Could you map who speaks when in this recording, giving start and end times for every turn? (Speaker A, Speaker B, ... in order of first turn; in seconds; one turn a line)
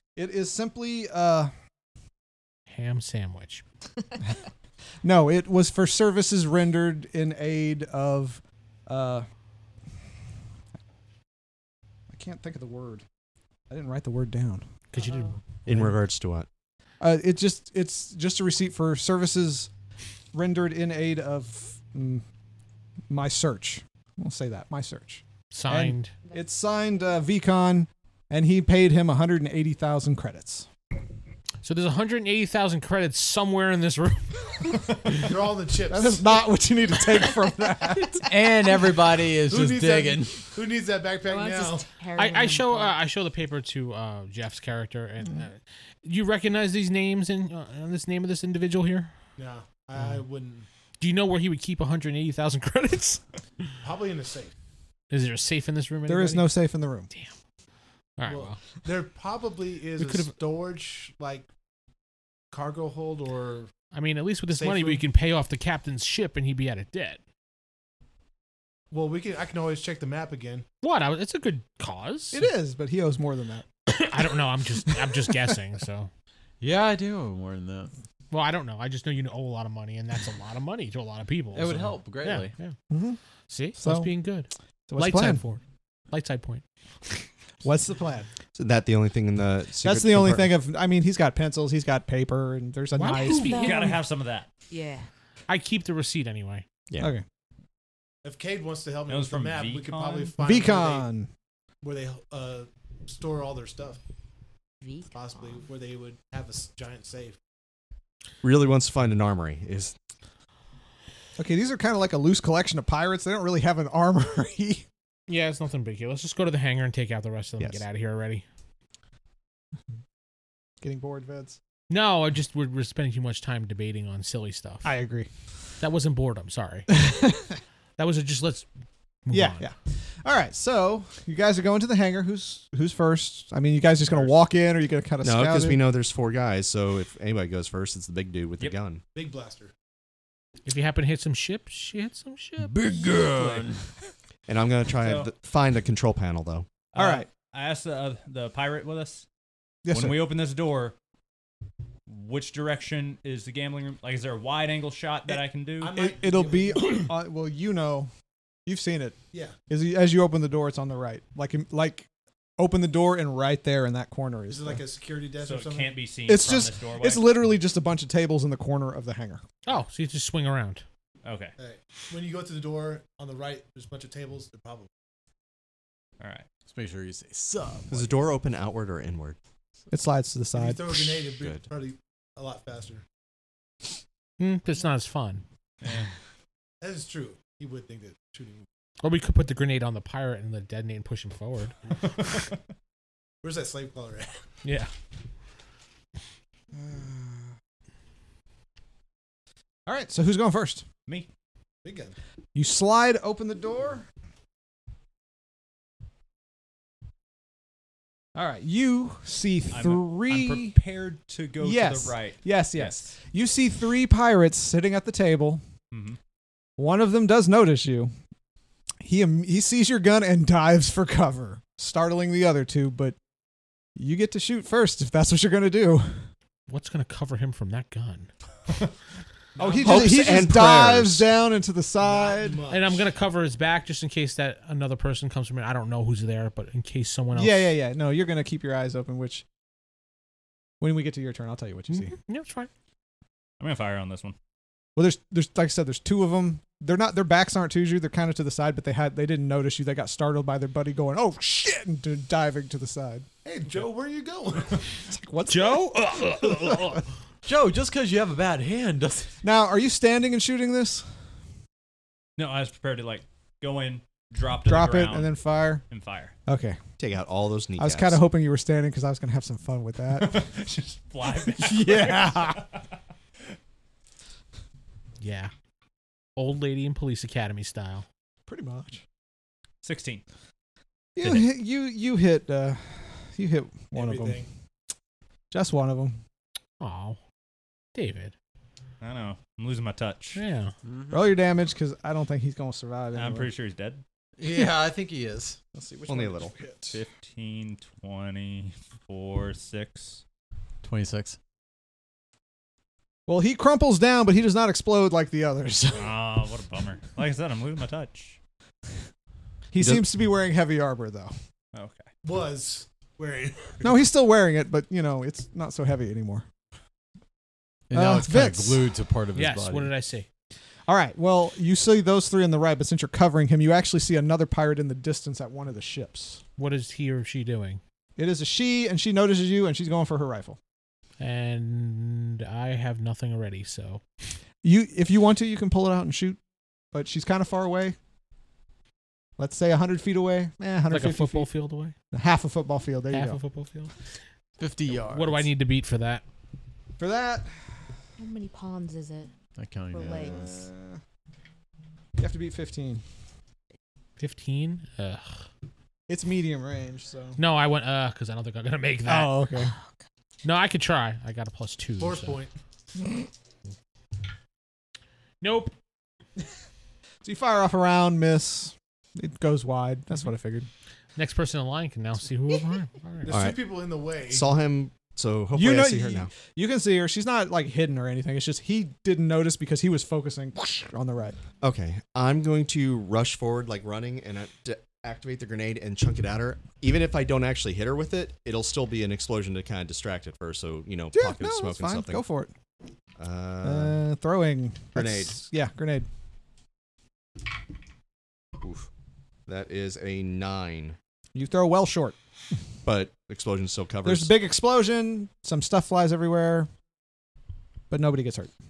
Speaker A: 0.2-1.5
Speaker B: 2.7-3.6
Speaker A: 5.0-9.3
Speaker A: 12.1-13.1
Speaker A: 13.7-14.7
Speaker B: 14.9-15.4
Speaker C: 15.0-15.4
Speaker D: 15.7-16.5
Speaker A: 17.0-19.7
Speaker A: 20.3-22.2
Speaker A: 23.1-30.7
Speaker B: 25.5-26.1
Speaker B: 31.6-34.7
Speaker E: 35.2-36.3
Speaker A: 35.9-38.3
Speaker F: 38.2-40.5
Speaker E: 39.5-41.9
Speaker C: 41.3-43.0
Speaker B: 42.2-49.1
Speaker E: 49.4-50.7
Speaker B: 51.0-53.2
Speaker E: 53.8-54.5
Speaker B: 55.1-56.5
Speaker A: 56.1-57.1
Speaker B: 58.2-58.6
Speaker E: 58.3-61.5
Speaker B: 60.0-60.3
Speaker E: 62.5-63.7
Speaker B: 63.9-67.2
Speaker E: 64.5-65.0
Speaker E: 68.9-70.7
Speaker B: 70.8-72.5
Speaker A: 72.3-73.7
Speaker B: 73.9-76.1
Speaker A: 74.9-75.3
Speaker F: 76.6-77.9
Speaker B: 78.3-82.8
Speaker F: 81.5-82.5
Speaker A: 82.9-83.2
Speaker B: 83.5-86.6
Speaker A: 83.8-84.1
Speaker A: 84.9-85.4
Speaker A: 87.6-88.3
Speaker D: 88.5-90.5
Speaker A: 89.8-93.5
Speaker B: 93.0-93.9
Speaker C: 93.1-94.0
Speaker G: 93.5-94.5
Speaker C: 94.7-95.1
Speaker B: 95.5-96.7
Speaker A: 97.0-97.2
Speaker E: 98.2-101.1
Speaker G: 99.1-100.3
Speaker A: 100.4-101.3
Speaker E: 101.8-104.0
Speaker C: 104.8-105.6
Speaker E: 105.1-107.4
Speaker D: 108.4-110.0
Speaker A: 111.4-114.8
Speaker B: 115.3-118.4
Speaker A: 120.8-121.6
Speaker B: 121.9-124.9
Speaker A: 124.8-125.3
Speaker B: 125.8-127.0
Speaker A: 126.9-127.6
Speaker B: 128.0-128.7
Speaker B: 129.3-129.7
Speaker A: 129.3-135.8
Speaker G: 134.1-134.3
Speaker D: 135.2-139.0
Speaker E: 139.1-139.7
Speaker B: 140.7-143.1
Speaker F: 142.7-143.8
Speaker D: 144.5-146.7
Speaker G: 145.0-145.3
Speaker G: 146.9-149.3
Speaker A: 147.0-147.3
Speaker A: 149.8-150.2
Speaker G: 149.9-151.0
Speaker G: 152.1-156.1
Speaker E: 155.8-157.1
Speaker A: 155.9-158.1
Speaker A: 158.7-159.2
Speaker E: 159.3-159.6
Speaker A: 159.7-164.8
Speaker E: 164.5-166.0
Speaker G: 165.4-167.3
Speaker A: 166.3-169.4
Speaker B: 169.7-170.8
Speaker G: 171.2-171.5
Speaker E: 171.6-174.9
Speaker G: 176.2-176.5
Speaker F: 176.7-178.3
Speaker D: 177.9-179.4
Speaker A: 179.9-181.1
Speaker E: 180.5-183.0
Speaker D: 181.4-181.6
Speaker B: 184.4-185.4
Speaker G: 185.8-186.1
Speaker E: 186.8-188.7
Speaker B: 189.0-192.2
Speaker E: 193.4-194.4
Speaker B: 194.6-194.9
Speaker A: 196.7-197.5
Speaker A: 199.9-200.9
Speaker E: 201.8-202.2
Speaker A: 202.6-204.1
Speaker A: 208.3-210.8
Speaker G: 209.7-213.1
Speaker A: 211.6-215.6
Speaker G: 215.9-216.2
Speaker A: 216.8-218.1
Speaker A: 219.0-223.2
Speaker A: 224.0-226.3
Speaker B: 226.7-228.3
Speaker E: 229.6-230.0
Speaker A: 229.6-232.7
Speaker D: 229.8-231.3
Speaker E: 232.0-233.1
Speaker B: 232.7-237.7
Speaker A: 237.3-239.4
Speaker A: 240.8-242.2
Speaker B: 241.9-242.7
Speaker G: 243.6-244.4
Speaker A: 245.0-253.3
Speaker E: 253.4-254.9
Speaker A: 255.1-257.0
Speaker B: 255.5-257.0
Speaker F: 257.4-259.4
Speaker A: 259.4-261.1
Speaker G: 262.4-265.4
Speaker A: 264.6-265.8
Speaker G: 265.9-266.3
Speaker A: 266.5-266.8
Speaker D: 267.0-268.2
Speaker A: 267.8-270.4
Speaker G: 270.1-272.9
Speaker A: 271.4-272.6
Speaker B: 275.2-275.5
Speaker B: 276.4-278.1
Speaker A: 278.5-279.0
Speaker G: 279.8-280.2
Speaker A: 281.2-284.5
Speaker E: 283.9-284.5
Speaker A: 285.5-286.2
Speaker B: 286.8-287.2
Speaker B: 287.9-288.3
Speaker G: 289.0-290.4
Speaker B: 290.4-290.7
Speaker F: 290.8-291.2
Speaker A: 291.1-293.5
Speaker G: 293.1-294.0
Speaker F: 294.4-295.6
Speaker A: 295.7-297.0
Speaker D: 296.1-296.5
Speaker G: 296.9-300.2
Speaker F: 300.8-301.4
Speaker A: 303.3-306.2
Speaker G: 305.9-308.4
Speaker A: 309.7-311.3
Speaker D: 309.8-310.0
Speaker G: 311.7-312.1
Speaker E: 312.2-313.9
Speaker A: 313.8-316.5
Speaker F: 317.9-319.9
Speaker A: 317.9-318.9
Speaker B: 319.4-320.3
Speaker A: 320.9-326.4
Speaker B: 326.6-327.8
Speaker A: 328.2-330.6
Speaker B: 331.2-334.0
Speaker A: 334.6-336.4
Speaker A: 336.9-338.0
Speaker A: 339.4-341.5
Speaker B: 340.9-341.9
Speaker A: 342.1-343.4
Speaker B: 343.1-343.9
Speaker F: 344.6-345.5
Speaker B: 345.0-346.2
Speaker A: 347.0-347.5
Speaker C: 348.2-349.3
Speaker F: 349.6-350.6
Speaker C: 349.9-350.5
Speaker A: 350.0-351.0
Speaker A: 352.2-353.0
Speaker B: 354.2-355.4
Speaker A: 356.1-357.4
Speaker B: 357.4-359.4
Speaker A: 359.1-359.7
Speaker B: 360.4-362.4
Speaker E: 362.0-362.5
Speaker B: 365.4-365.8
Speaker A: 367.2-370.7
Speaker B: 371.2-373.4
Speaker E: 373.2-374.5
Speaker D: 373.3-373.6
Speaker D: 374.3-376.3
Speaker A: 375.6-381.4
Speaker D: 381.6-392.2
Speaker A: 391.1-392.5
Speaker D: 393.2-394.0
Speaker A: 393.6-396.1
Speaker D: 394.9-395.4
Speaker D: 398.6-398.9
Speaker D: 399.5-401.0
Speaker A: 401.3-402.2
Speaker D: 402.9-404.3
Speaker A: 404.0-406.7
Speaker A: 407.9-408.5